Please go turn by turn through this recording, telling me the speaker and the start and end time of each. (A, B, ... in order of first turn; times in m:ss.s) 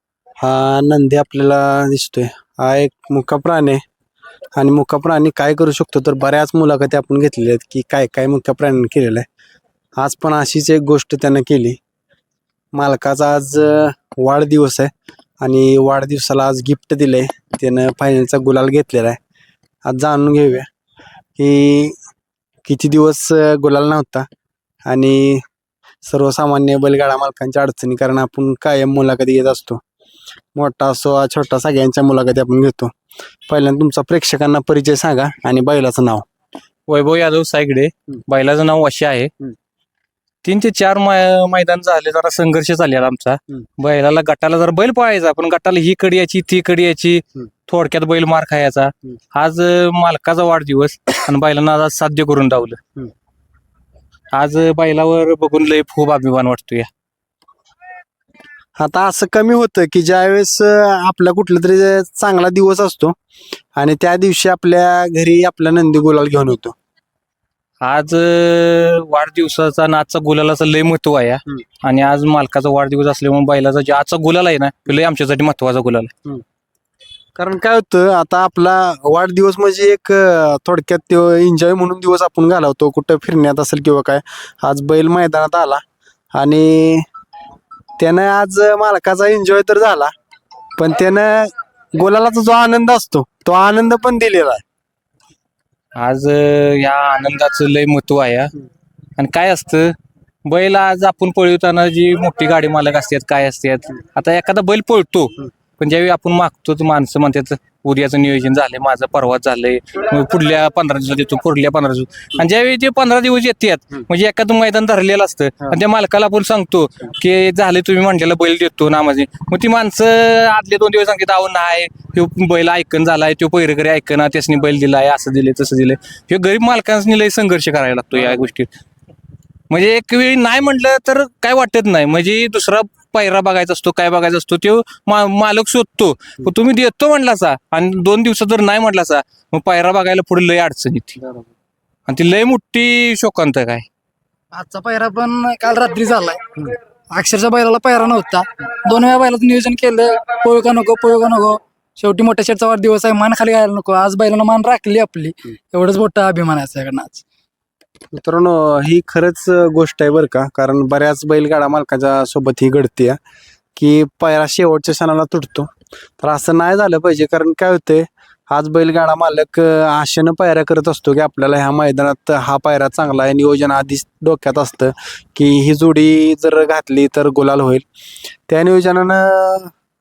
0:00.4-0:03.8 A
0:04.6-0:09.2 A
0:10.0-0:11.8 A
0:12.7-0:19.2 A
0:19.8-0:20.7 A
0:21.4-0:22.0 A
0:22.6-0:24.3 A
0:24.9-0:25.4 A
0:26.0-0:29.8 A
0:30.5-0:32.9 A
0:33.5-0:36.2 A
0:36.9-0:39.3 B
0:40.4-0:52.8 B
0:54.3-0:56.9 B
0:58.8-1:03.1 A
1:03.8-1:06.7 A
1:07.8-1:16.1 B
1:17.4-1:25.8 A
1:26.3-1:27.0 A
1:28.0-1:30.1 A
1:30.8-1:34.6 A
1:35.9-1:38.5 B
1:39.2-2:08.7 B
2:09.7-2:21.2 B
2:21.2-2:21.5 A
2:22.1-2:23.8 B
2:24.5-2:26.4 C
2:27.1-2:37.2 C
2:38.1-2:43.2 A
2:43.8-2:57.8 A
2:58.5-2:59.7 A